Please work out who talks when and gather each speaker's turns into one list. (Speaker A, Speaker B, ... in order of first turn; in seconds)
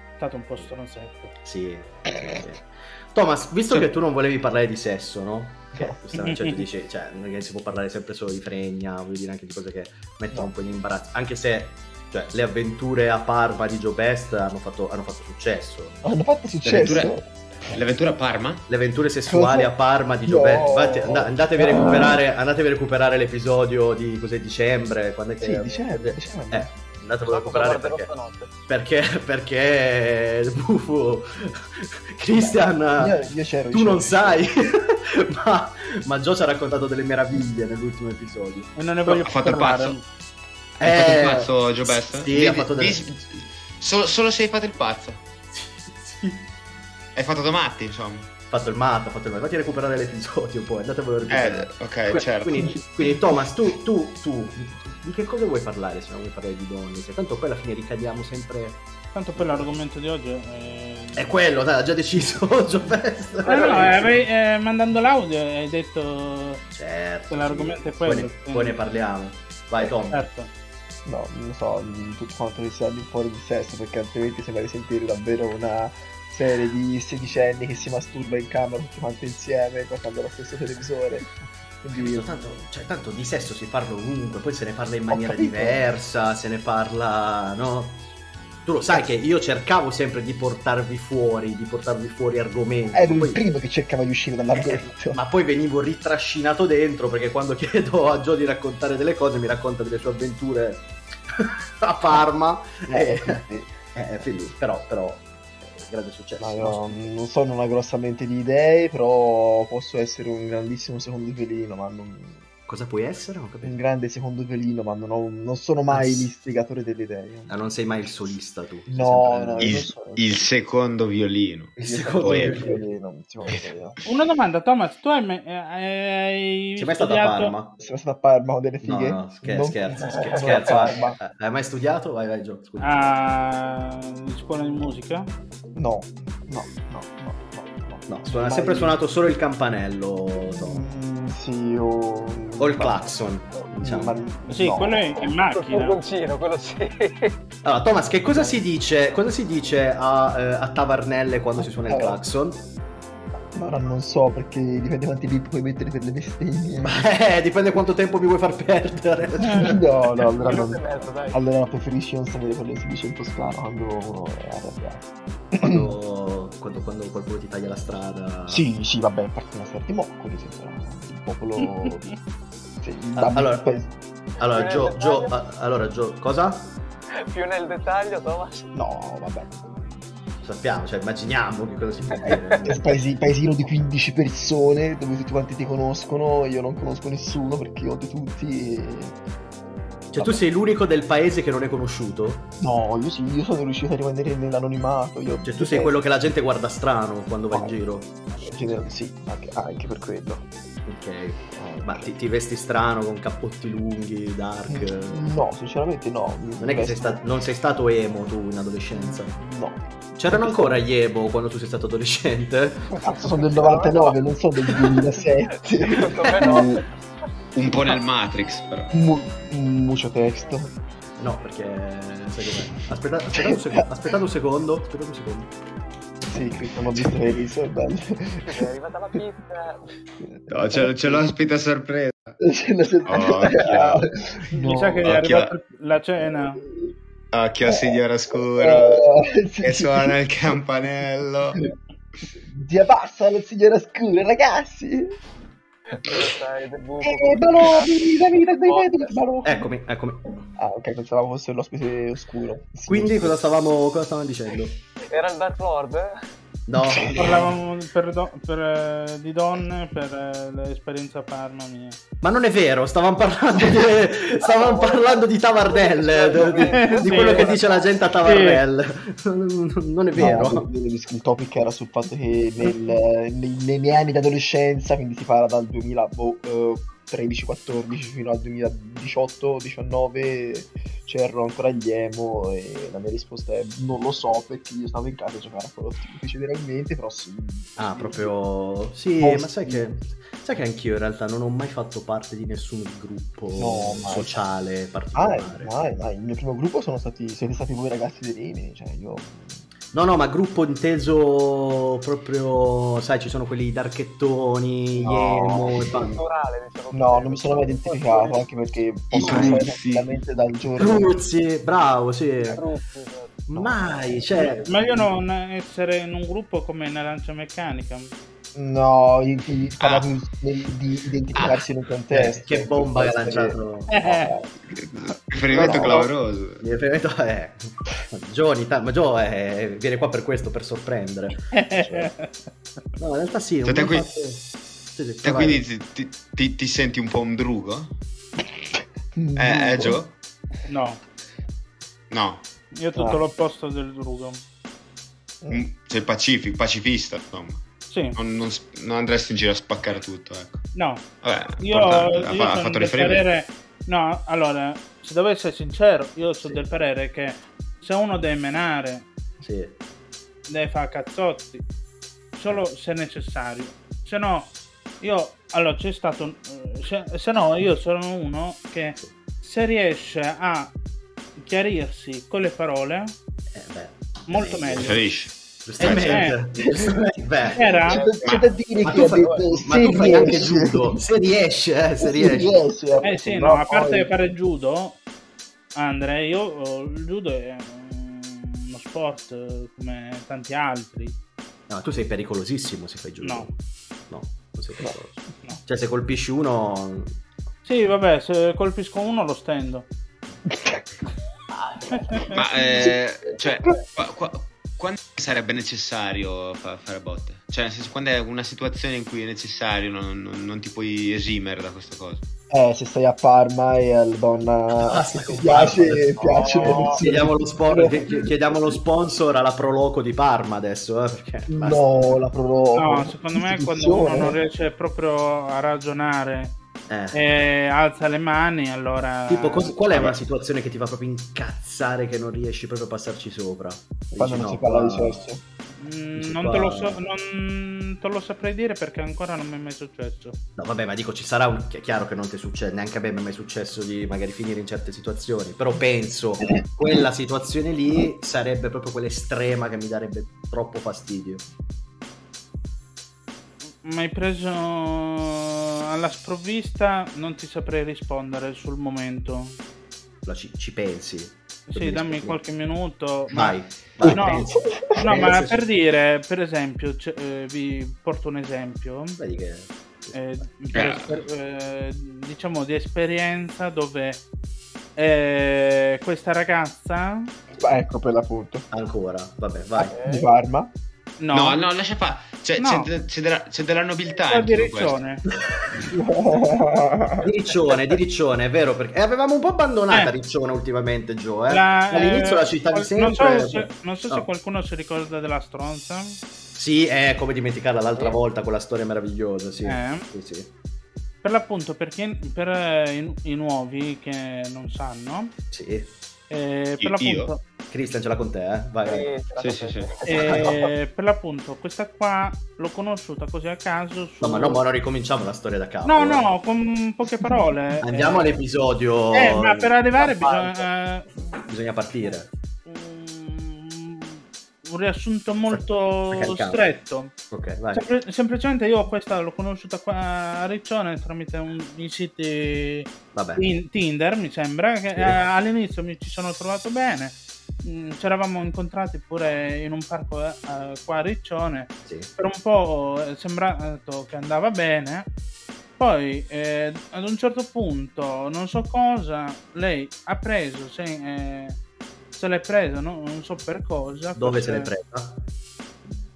Speaker A: 0.2-1.3, 6.1-6.6, 38.8-40.0, 59.1-61.3, 63.5-66.6, 67.3-68.8, 70.1-70.5, 124.0-127.5, 132.8-135.3, 144.5-146.0, 234.6-236.6, 257.2-262.0, 266.7-267.5, 268.2-268.6, 314.4-318.1, 323.9-324.3, 331.5-332.4, 340.7-341.0, 342.7-344.4, 347.9-348.2, 350.7-351.1, 351.6-359.1, 360.5-361.6, 362.3-370.7, 371.4-373.1, 374.3-375.0, 375.8-376.4, 377.5-378.1, 383.0-385.0, 385.8-391.2, 393.2-393.5, 397.6-399.9, 401.9-402.4, 422.7-426.6, 427.1-429.8, 435.8-440.4, 453.8-459.6, 461.7-469.2, 470.1-474.2, 474.9-477.3, 481.2-481.6, 482.6-482.9, 484.2-485.2, 491.5-496.2, 499.6-500.1, 501.2-505.3, 506.3-507.4, 510.0-514.6, 515.8-518.4, 519.1-521.4, 522.6-527.1, 527.7-545.1, 545.8-551.6, 552.1-554.7
Speaker B: 1.4-16.0, 18.7-28.1, 28.7-33.2, 33.7-38.8, 40.8-43.1, 45.5-46.5, 48.5-58.8, 59.4-59.7, 61.1-64.2, 66.7-70.2, 81.9-88.0, 88.6-93.4, 94.5-107.0, 112.7-113.8, 115.9-116.3, 117.5-119.8, 121.8-122.8, 126.8-127.8, 128.8-133.1, 138.1-140.8, 142.6-144.2, 147.6-152.7, 156.8-160.1, 165.6-168.6, 173.2-173.6, 174.4-176.8, 180.4-182.9, 190.1-192.5, 195.4-198.9, 200.8-205.2, 206.6-209.3, 210.2-213.7, 216.4-216.6, 221.2-225.5, 249.4-250.5, 252.9-254.7, 256.7-257.5, 262.2-270.7, 287.8-295.7, 299.9-306.2, 309.2-309.6, 310.8-312.6, 313.5-315.0, 322.1-324.0, 325.6-326.0, 326.6-332.1, 333.0-335.6, 359.4-359.8, 373.5-375.0, 375.6-377.7, 378.3-382.5, 391.7-393.6, 394.1-397.2, 414.7-422.2, 426.9-427.2, 429.3-435.2, 436.1-437.0, 440.6-451.4, 460.2-462.4, 463.3-465.6, 469.2-470.3, 478.7-479.9, 487.2-494.3, 496.5-500.5, 505.5-505.9, 507.7-509.1, 510.2-510.4, 514.2-516.3, 517.8-520.7, 521.5-522.3, 525.5-526.7, 527.3-527.8, 533.1-533.5, 554.1-555.3
Speaker C: 16.0-17.8, 19.3-22.2, 25.4-26.7, 32.3-34.5, 71.0-81.3, 81.8-82.4, 85.1-85.8, 92.9-95.2, 102.9-103.8, 106.4-112.4, 113.6-118.3, 118.9-120.5, 121.8-124.0, 127.8-131.2, 135.7-139.0, 140.4-145.0, 148.3-148.6, 151.6-152.2, 153.5-157.1, 159.5-165.9, 168.5-172.1, 172.8-174.0, 178.7-179.9, 182.3-189.2, 190.2-190.4, 192.6-195.9, 197.5-197.8, 198.4-200.5, 201.5-202.1, 204.7-207.2, 208.9-210.8, 213.0-216.8, 218.9-220.7, 223.3-223.8, 226.3-228.7, 230.2-231.3, 232.4-235.1, 237.6-240.2, 242.5-245.2, 247.0-249.7, 250.6-253.4, 256.8-257.5, 270.1-288.3, 289.2-289.9, 293.5-294.5, 295.1-299.6, 305.0-306.2, 306.9-311.2, 313.6-314.2, 318.5-324.5, 325.5-326.1, 339.1-340.0, 342.9-343.2, 376.6-377.1, 377.9-381.0, 382.0-384.1, 400.5-400.8, 401.6-403.7, 412.5-418.8, 421.5-424.4, 434.2-435.4, 464.0-465.0, 477.6-478.7, 479.9-480.7, 485.8-487.2
Speaker D: 16.6-17.2, 17.7-18.6, 39.1-40.0, 40.8-45.2, 47.1-48.3, 51.3-52.8, 119.6-122.7, 217.5-218.9, 230.5-232.3, 233.0-234.1, 235.0-235.5, 237.3-239.1, 239.6-241.7, 309.1-310.1, 319.8-320.1, 321.3-321.6, 324.7-326.6, 333.6-334.1, 335.2-337.9, 339.4-340.1, 342.1-342.4, 345.5-347.6, 348.1-350.7, 351.2-353.2, 374.8-376.3, 402.3-412.2, 429.9-430.2, 470.7-471.1, 481.3-485.0, 506.8-507.3, 509.4-509.9
Speaker E: 27.3-28.6, 63.4-64.0, 145.5-147.4, 160.4-161.4, 174.5-175.3, 177.2-178.7, 182.2-182.7, 213.6-214.1, 215.5-216.8, 228.4-229.9, 245.9-249.2, 255.1-256.2, 264.4-267.9, 305.7-308.4, 312.5-313.5, 377.8-378.3, 379.0-380.2, 416.2-417.0, 479.8-480.3, 508.8-510.7